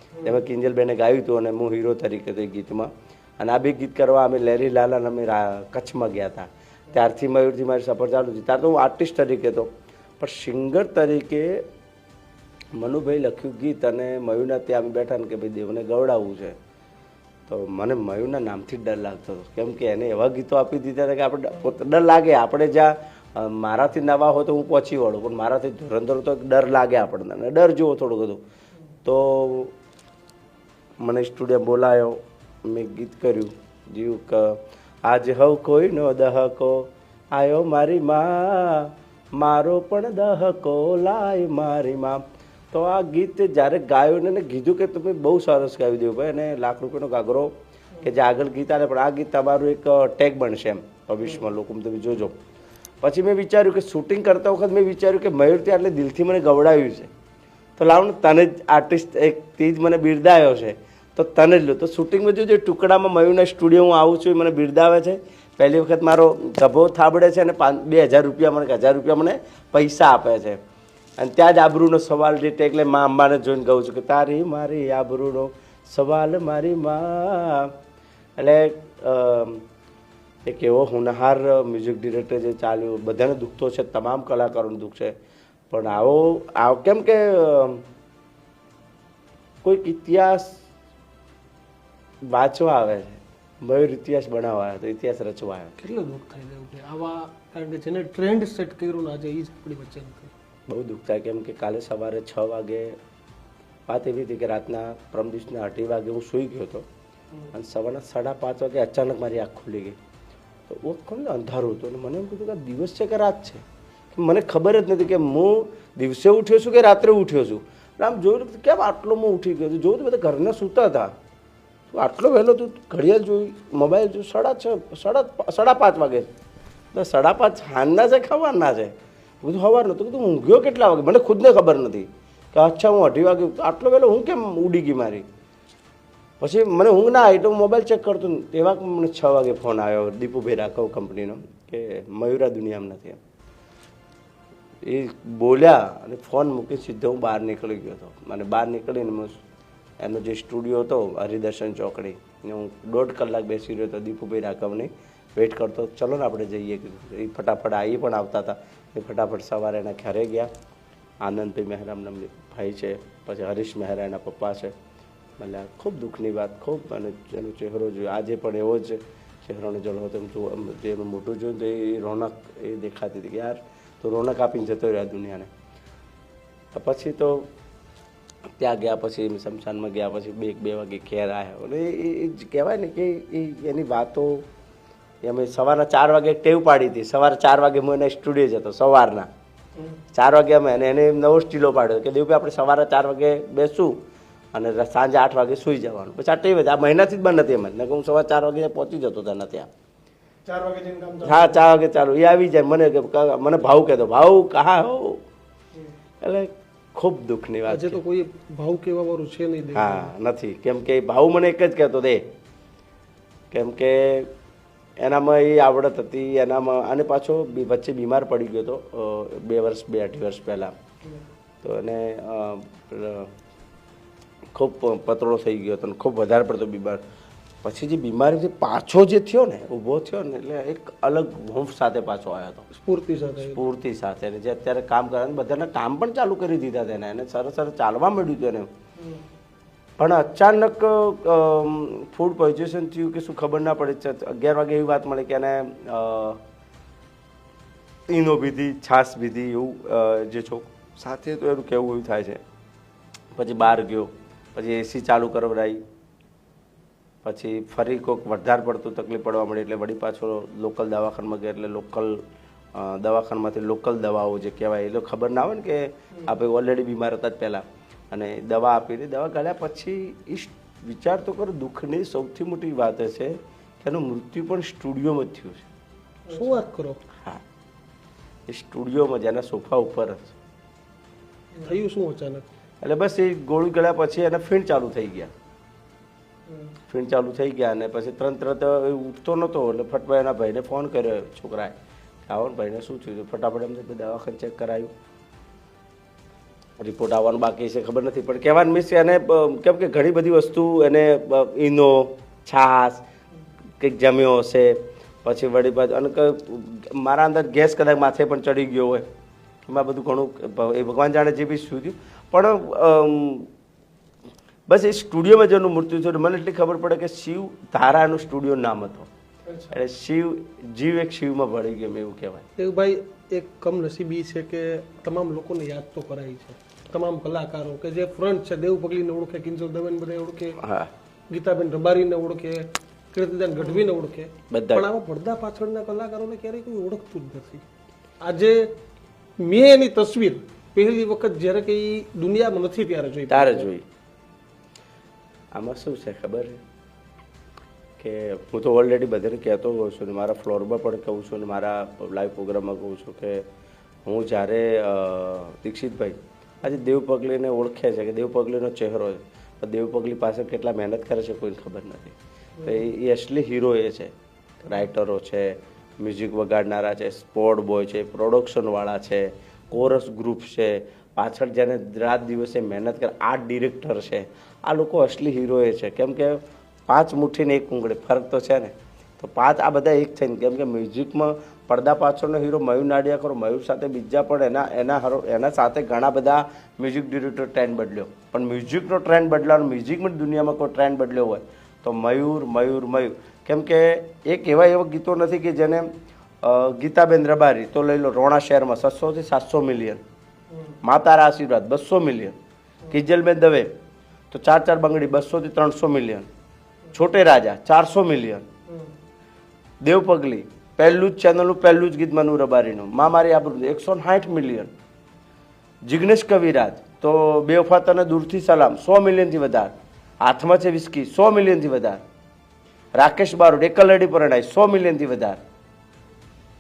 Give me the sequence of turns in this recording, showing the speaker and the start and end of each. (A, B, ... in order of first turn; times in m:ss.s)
0:00.1-0:00.4 A
0:00.2-0:11.6 B
0:12.8-0:16.6 B
0:17.5-0:28.4 B
0:29.0-0:29.7 B
0:31.0-0:52.4 B
0:53.0-0:57.1 B
0:57.8-1:10.6 B
1:11.2-1:17.7 B
1:18.4-1:19.6 B
1:20.4-1:25.2 B
1:25.7-1:27.8 B
1:29.6-1:30.6 B
1:32.3-1:35.7 B
1:35.8-1:40.3 C
1:40.7-1:43.0 B
1:43.9-1:46.9 B
1:47.5-1:50.0 B
1:50.7-1:53.6 B
1:54.1-2:01.1 B
2:01.9-2:06.3 B
2:06.9-2:15.3 B
2:16.4-2:23.2 B
2:24.8-2:29.4 B
2:30.0-2:40.5 B
2:41.2-2:44.7 B
2:45.4-2:55.5 B
2:56.7-2:57.5 B
2:58.6-3:04.4 B
3:05.2-3:09.3 B
3:10.1-3:14.0 B
3:14.5-3:19.7 B
3:20.5-3:21.6 A
3:21.2-3:25.2 B
3:26.2-3:28.0 B
3:27.7-3:30.1 C
3:29.8-3:32.3 B
3:33.5-3:34.3 B
3:35.0-3:40.7 B
3:41.6-3:43.3 B
3:44.6-3:47.0 B
3:47.6-3:52.7 B
3:52.7-3:53.6 C
3:53.4-3:58.7 B
3:59.0-3:59.2 A
4:00.0-4:06.4 B
4:08.1-4:12.4 B
4:13.4-4:15.8 B
4:17.2-4:22.2 B
4:22.8-4:35.7 B
4:36.3-4:36.6 A
4:36.3-4:37.0 C
4:38.5-4:40.3 B
4:41.6-4:42.5 C
4:42.8-4:45.3 B
4:46.5-4:46.7 A
4:46.9-4:51.8 B
4:52.3-4:54.9 B
4:56.8-5:03.0 B
5:03.8-5:09.1 B
5:09.7-5:13.5 B
5:14.7-5:19.1 B
5:19.5-5:19.7 A
5:19.7-5:22.4 B
5:22.6-5:30.6 C
5:30.6-5:30.9 B
5:31.3-5:37.6 C
5:34.5-5:34.9 B
5:38.2-5:38.7 C
5:39.4-5:43.7 C
5:43.3-5:43.8 B
5:45.5-5:46.6 B
5:48.0-5:53.5 B
5:54.1-6:04.1 B
6:02.6-6:02.8 A
6:04.7-6:35.9 B
6:36.4-6:40.0 B
6:40.5-6:40.8 A
6:40.8-6:42.4 B
6:42.9-6:43.7 B
6:44.3-6:46.3 B
6:46.9-6:48.5 B
6:49.8-6:54.7 B
6:55.8-7:02.0 B
7:03.0-7:05.4 B